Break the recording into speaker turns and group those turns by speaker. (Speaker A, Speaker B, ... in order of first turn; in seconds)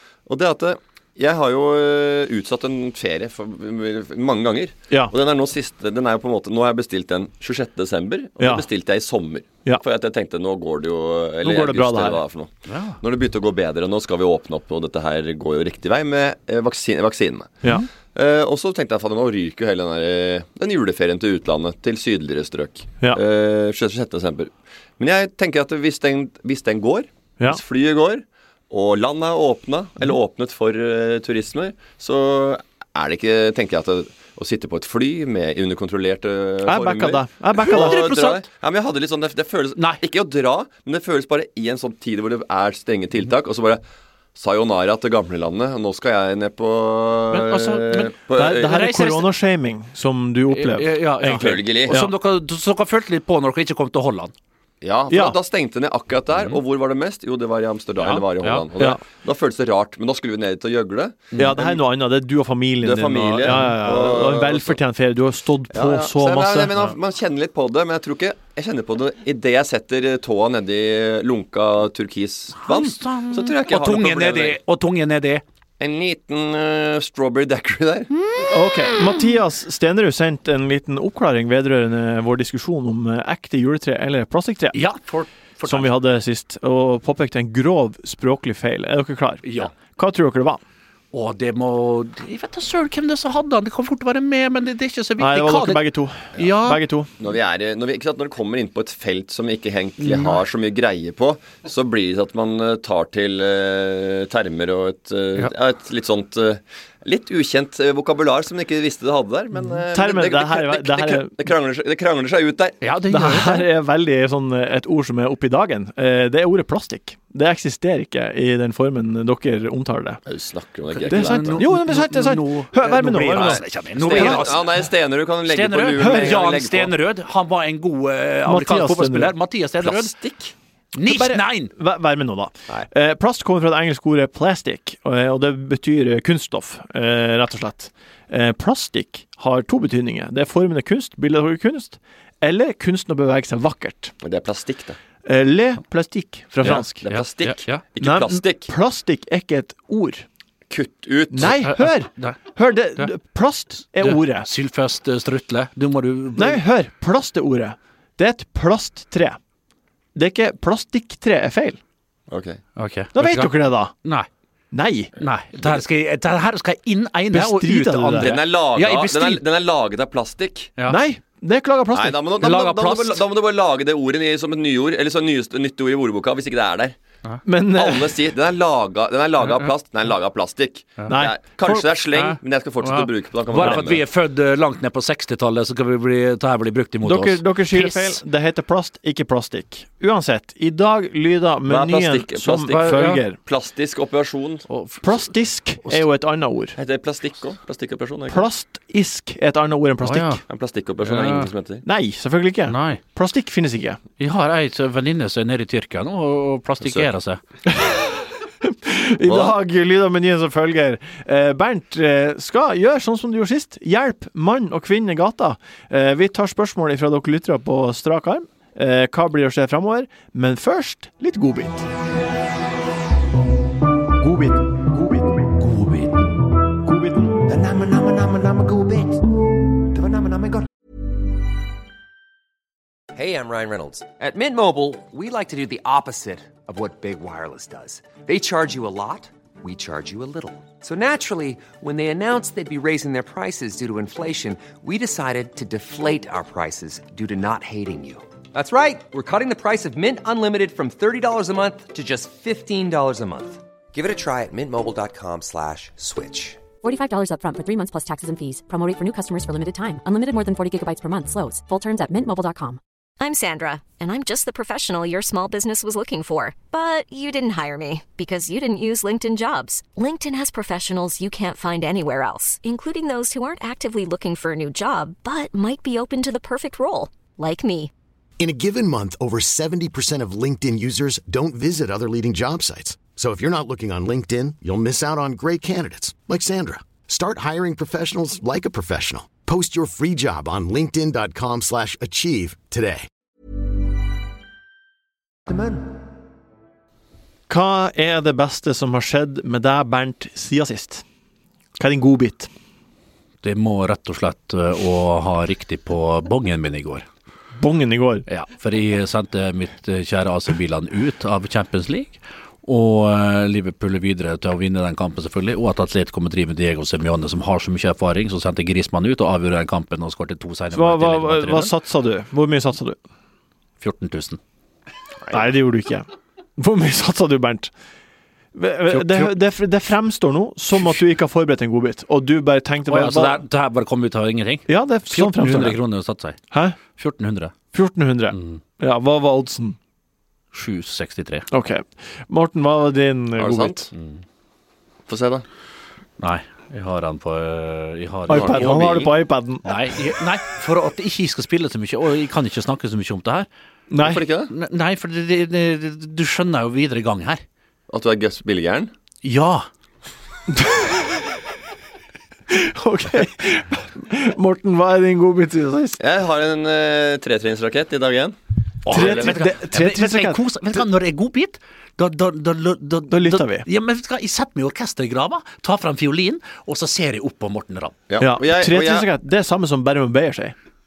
Speaker A: 0.3-17.6, 18.1-43.8, 44.4-48.7, 51.2-52.0, 54.8-61.8, 62.8-64.8, 65.7-74.6, 75.8-78.1, 97.2-112.8, 120.3-121.6, 123.4-126.9, 129.8-130.5, 144.2-145.0, 146.6-148.7, 150.7-151.5, 162.3-162.6, 168.2-170.7, 171.9-177.0, 177.8-184.0, 191.7-194.7, 196.8-198.4, 200.5-201.8, 206.8-207.1, 209.2-209.6, 343.4-343.9, 345.1-345.4, 348.3-349.1, 354.0-354.5, 357.9-358.9, 366.0-368.4, 368.9-369.4, 378.1-379.1
Speaker B: 8.4-8.7, 11.4-12.2, 36.6-38.0, 48.4-52.1, 55.1-55.4, 61.4-66.7, 78.5-84.8, 85.7-90.6, 95.2-97.1, 109.9-111.4, 113.1-120.2, 121.1-124.5, 126.0-126.3, 128.5-129.3, 131.0-144.2, 145.3-147.0, 148.0-150.3, 151.3-154.5, 156.3-159.4, 160.2-161.8, 163.2-163.9, 164.7-165.1, 167.3-168.3, 170.9-172.6, 177.4-178.2, 181.1-181.9, 187.0-193.4, 195.0-196.8, 198.3-200.4, 201.8-204.0, 207.7-221.9, 224.2-225.3, 226.8-227.4, 297.5-301.0, 301.8-302.5, 307.6-308.3, 320.7-323.0, 325.3-326.1, 326.6-327.7, 328.6-333.4, 334.7-335.8, 336.5-336.8, 337.7-339.8, 341.5-343.9, 348.3-349.7, 353.9-354.2, 360.5-361.2, 362.5-366.0, 368.9-370.4, 373.1-373.7, 378.2-380.6
Speaker C: 12.7-13.0, 37.6-38.5, 39.8-40.0, 47.3-49.3, 50.5-54.3, 56.3-56.6, 58.0-58.7, 72.6-75.4, 78.2-78.5, 84.7-85.9, 89.5-89.7, 91.1-95.8, 96.3-96.8, 100.0-100.4, 112.8-113.7, 120.9-124.9, 125.5-130.1, 130.9-131.7, 146.6-147.8, 151.4-153.1, 154.0-156.6, 162.8-164.3, 165.2-169.4, 172.4-173.2, 182.1-188.2, 192.7-193.2, 194.7-196.1, 200.0-200.4, 201.0-201.5, 202.7-203.0, 204.2-207.4, 303.4-307.1, 308.3-321.7, 323.8-324.4, 328.9-329.4, 332.9-336.4, 337.0-337.5, 338.3-338.6, 340.5-341.5, 343.9-344.2, 346.2-349.1, 349.6-353.5, 354.5-357.4, 359.2-359.7, 368.9-378.0
Speaker D: 225.6-226.3, 227.4-229.2, 229.9-230.7, 233.2-256.6, 295.5-296.0
Speaker E: 256.8-262.8
Speaker F: 263.2-277.9
Speaker G: 278.4-293.1